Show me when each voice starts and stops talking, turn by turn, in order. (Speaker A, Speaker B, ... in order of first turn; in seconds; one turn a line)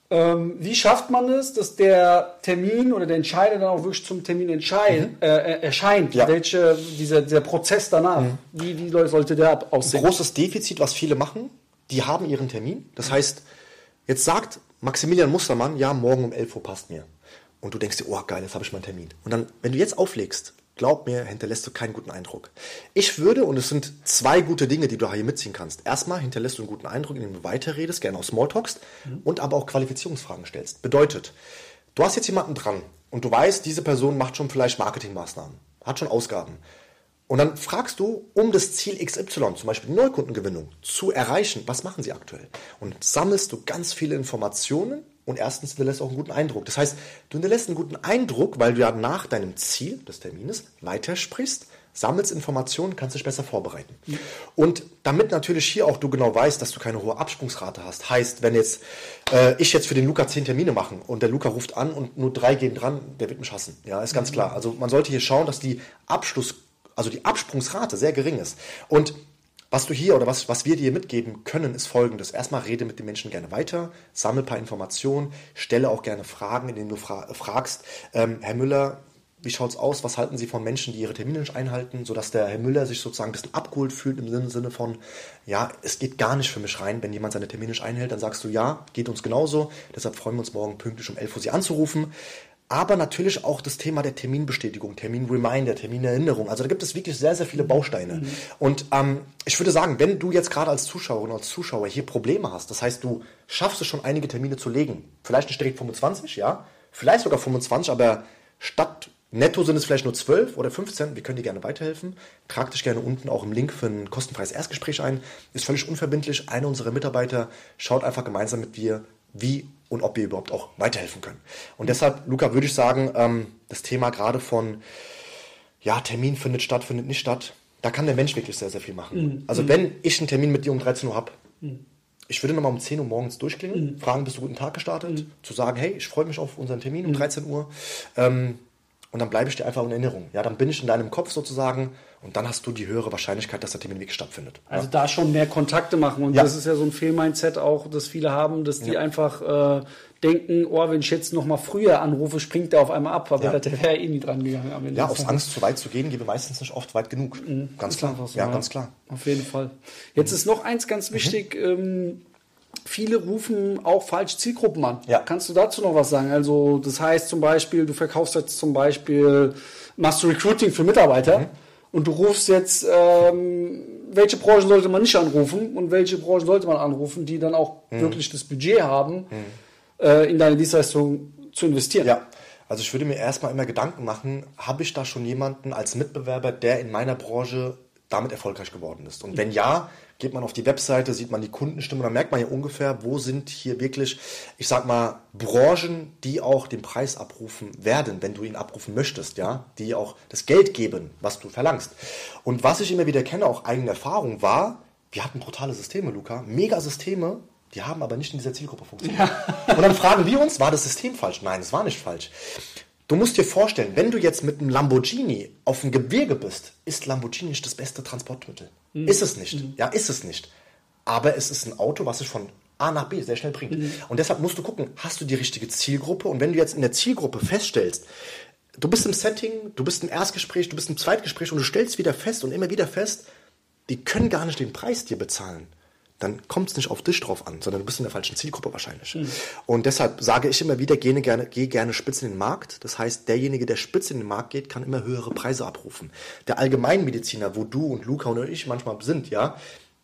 Speaker A: 0.1-10.1
Speaker B: 9.8-13.4
Speaker B: 14.1-17.1
Speaker B: 17.6-31.4
Speaker B: 31.9-36.6
Speaker B: 37.3-69.2
Speaker B: 69.7-92.1
Speaker B: 92.7-124.8
Speaker A: 98.1-98.4
Speaker B: 125.8-131.4
Speaker A: 129.1-129.8
Speaker B: 132.3-138.6
Speaker A: 133.7-134.0
Speaker B: 139.1-144.9
Speaker A: 144.7-155.5
Speaker B: 154.9-158.9
Speaker A: 157.4-162.2
Speaker A: 162.9-179.3
Speaker B: 177.9-178.2
Speaker B: 179.3-179.6
Speaker A: 180.0-182.2
Speaker B: 182.0-212.3
Speaker A: 209.0-209.9
Speaker B: 213.1-220.5
Speaker A: 218.9-219.7
Speaker B: 221.1-228.1
Speaker A: 223.7-224.0
Speaker B: 228.8-233.3
Speaker B: 233.9-249.6